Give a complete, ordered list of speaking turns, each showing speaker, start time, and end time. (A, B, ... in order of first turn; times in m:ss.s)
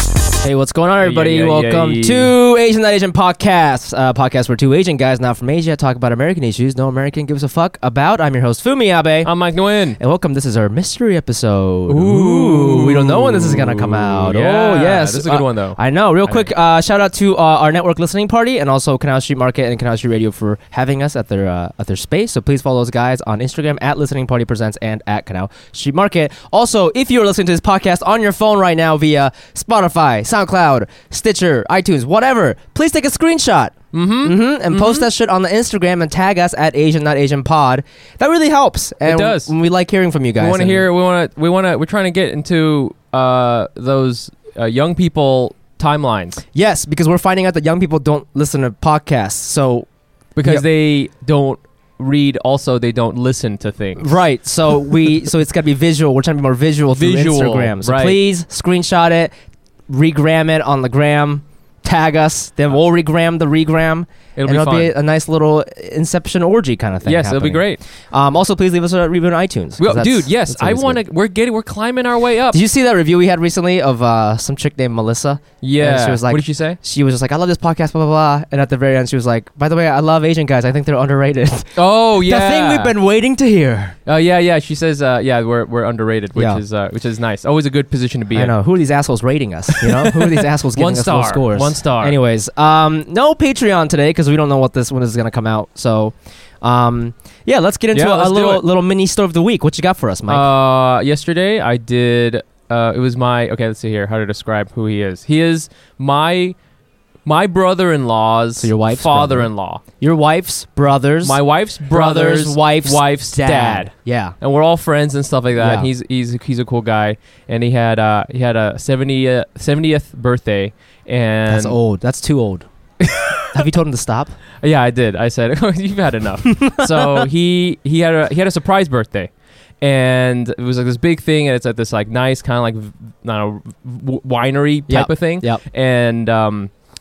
0:00.4-0:09.3 A
0:01.0-0:02.3 B
0:09.2-0:10.0 B
0:10.0-0:40.9 A
0:11.9-0:16.5 B
0:33.9-0:35.1 B
0:39.0-0:39.5 B
0:40.4-0:46.4 B
0:46.5-0:49.9 A
0:50.4-0:54.2 B
0:54.0-0:59.3 A
0:56.9-0:58.2 B
0:59.9-1:11.0 A
1:04.4-1:04.9 B
1:07.0-1:07.8 B
1:09.8-1:12.6 B
1:12.5-1:24.0 A
1:15.6-1:16.8 B
1:21.8-1:23.0 B
1:24.1-1:28.6 B
1:26.4-1:26.6 A
1:28.3-1:40.5 A
1:29.8-1:32.2 B
1:37.9-1:38.6 B
1:40.3-1:46.6 B
1:47.2-1:49.8 B
1:48.6-1:51.4 A
1:51.2-2:01.8 B
1:51.9-1:54.4 A
1:55.6-1:55.9 A
2:01.5-2:02.7 A
2:03.0-2:03.5 B
2:03.5-2:04.4 A
2:04.6-2:09.3 B
2:06.7-2:07.3 A
2:09.8-2:16.7 B
2:14.9-2:15.6 A